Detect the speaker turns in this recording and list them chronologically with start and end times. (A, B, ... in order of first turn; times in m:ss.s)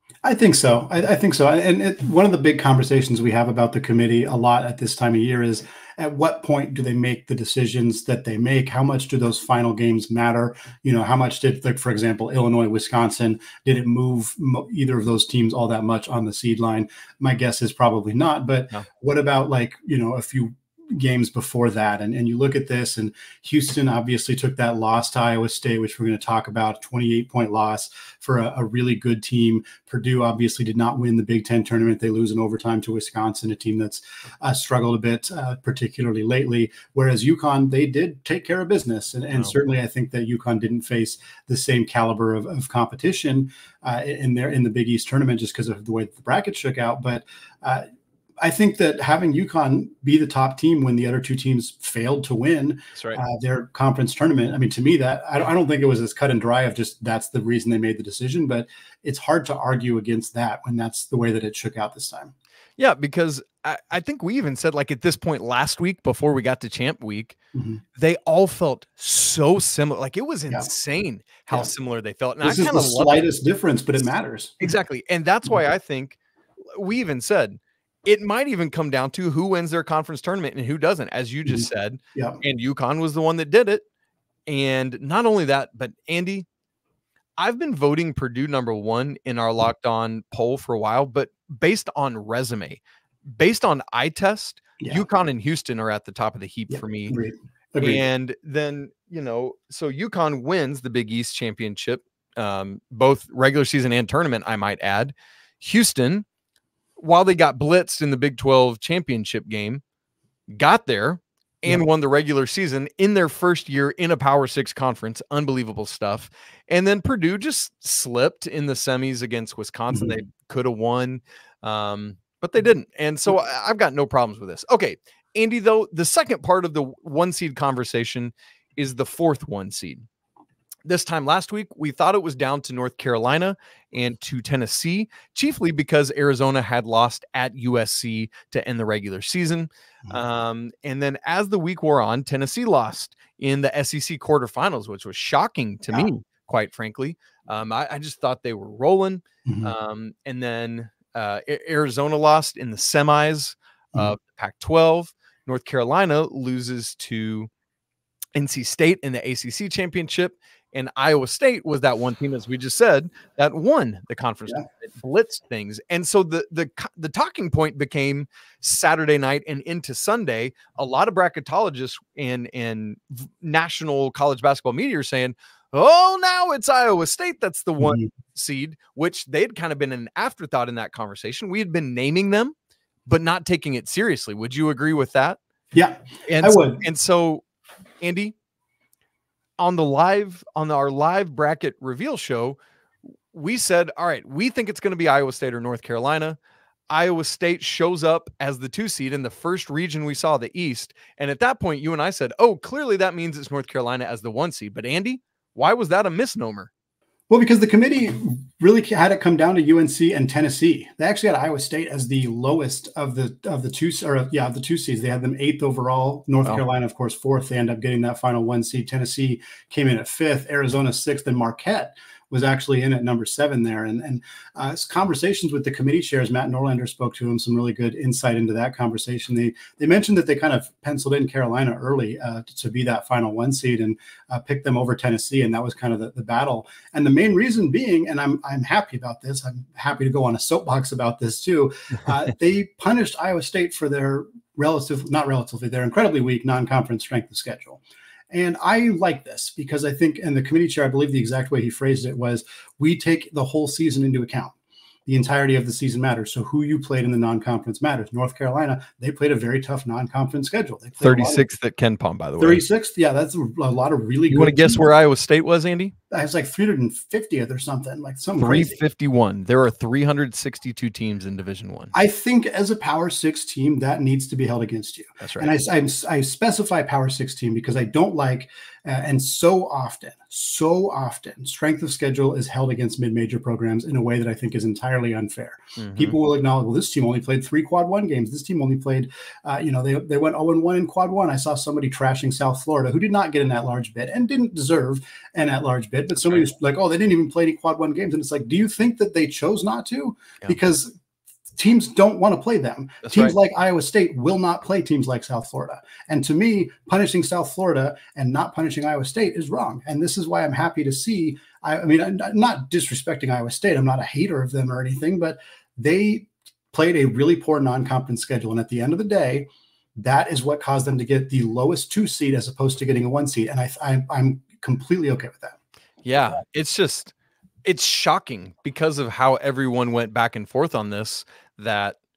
0:00.2-0:47.8 A
0:48.4-1:02.3 A
1:02.8-1:07.4 B
1:07.5-1:07.8 A
1:08.0-1:13.3 B
1:12.4-1:14.6 A
1:14.6-1:16.2 B
1:16.8-1:23.8 B
1:21.5-1:22.4 A
1:24.5-1:26.5 B
1:27.4-1:37.2 B
1:34.8-1:35.0 A
1:36.7-1:38.0 A
1:37.8-1:46.3 B
1:47.0-1:49.8 B
1:50.5-2:10.1 B
2:10.9-2:37.5 B
2:29.5-2:29.7 A
2:38.4-3:02.5 B
2:57.8-2:58.1 A
3:03.1-3:05.4 B
3:05.7-3:06.8 A
3:06.3-3:07.4 B
3:08.0-3:08.3 B
3:09.6-3:12.6 B
3:13.3-3:16.4 B
3:16.9-3:26.7 B
3:27.3-4:14.5 A
4:15.1-4:21.5 A
4:21.0-4:22.6 B
4:22.4-4:24.9 A
4:24.3-4:26.0 B
4:26.1-4:28.8 A
4:28.4-4:31.9 B
4:31.9-5:01.0 A
4:35.2-4:35.6 B
4:45.8-4:46.2 B
5:01.6-5:25.6 A
5:03.0-5:03.4 B
5:26.0-5:27.1 B
5:27.6-5:32.0 B